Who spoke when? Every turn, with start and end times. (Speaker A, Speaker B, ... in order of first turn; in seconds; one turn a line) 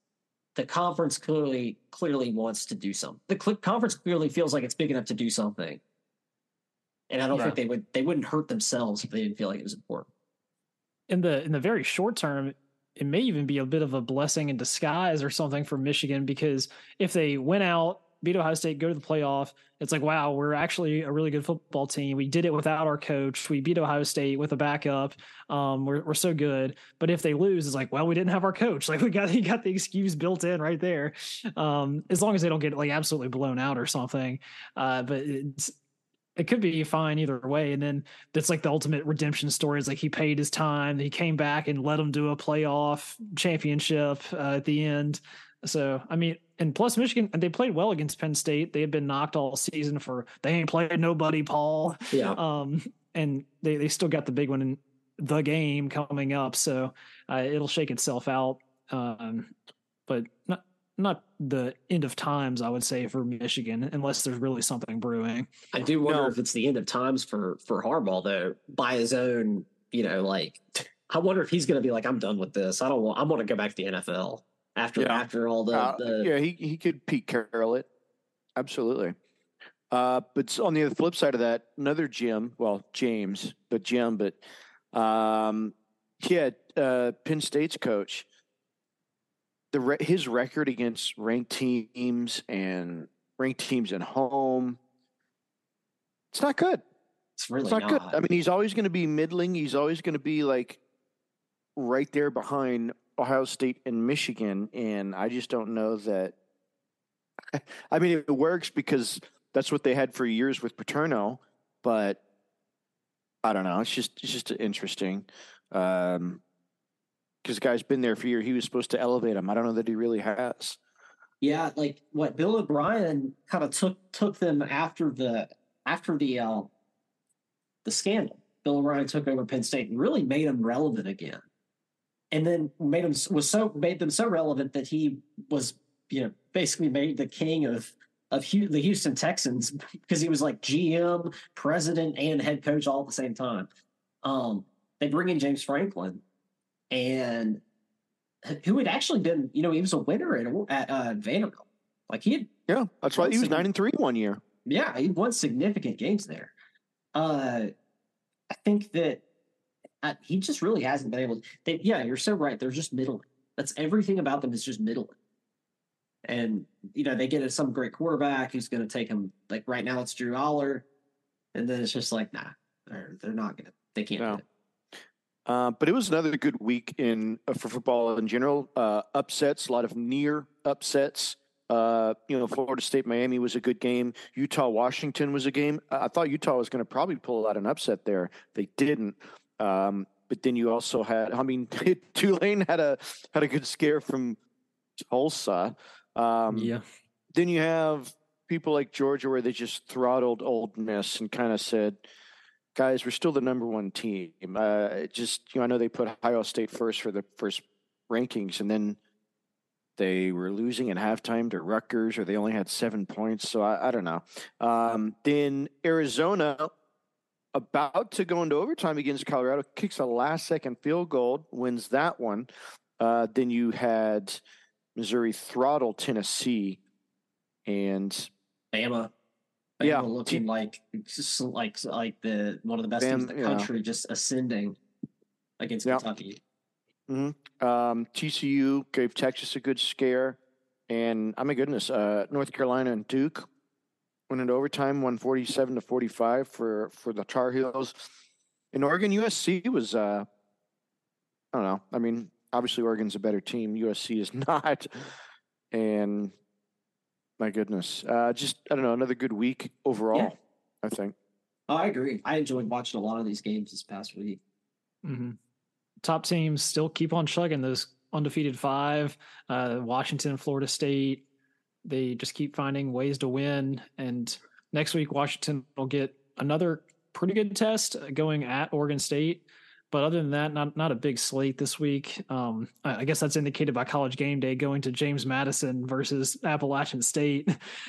Speaker A: 0.6-5.8
Speaker A: 7.1-10.1
Speaker B: 11.1-35.8
Speaker B: 36.4-59.5
Speaker A: 52.1-52.4
Speaker B: 60.1-65.5
Speaker A: 65.7-76.3
Speaker C: 66.0-66.3
Speaker C: 75.0-77.9
Speaker C: 78.6-79.2
Speaker C: 79.9-84.4
Speaker C: 84.9-88.3
Speaker C: 89.7-94.8
Speaker C: 96.3-96.8
Speaker A: 97.4-98.2
Speaker C: 97.6-100.8
Speaker C: 101.8-106.3
Speaker C: 107.5-112.2
Speaker C: 113.4-116.4
Speaker C: 117.4-120.8
Speaker A: 121.4-126.7
Speaker A: 127.8-131.4
Speaker A: 132.3-143.7
Speaker A: 144.2-146.2
Speaker A: 146.9-147.6
Speaker A: 148.4-152.5
Speaker C: 152.7-154.4
Speaker A: 153.2-153.6
Speaker A: 154.7-156.5
Speaker A: 157.2-157.7
Speaker A: 158.5-159.2
Speaker A: 160.0-165.2
Speaker A: 166.2-170.9
Speaker A: 171.5-174.4
Speaker C: 175.5-194.4
Speaker C: 195.0-196.7
Speaker B: 196.5-196.8
Speaker C: 197.3-202.0
Speaker C: 202.8-209.0
Speaker C: 210.0-216.7
Speaker C: 217.5-224.4
Speaker C: 224.9-226.8
Speaker C: 227.7-228.3
Speaker A: 228.7-229.1
Speaker A: 229.8-234.8
Speaker C: 229.8-230.4
Speaker C: 233.0-233.7
Speaker A: 235.6-236.4
Speaker C: 237.1-240.4
Speaker C: 240.9-243.5
Speaker C: 244.3-248.0
Speaker C: 248.7-250.3
Speaker C: 251.5-255.1
Speaker C: 255.7-256.3
Speaker C: 257.4-261.1
Speaker A: 261.7-264.4
Speaker B: 265.0-265.4
Speaker B: 266.0-271.2
Speaker B: 271.9-287.6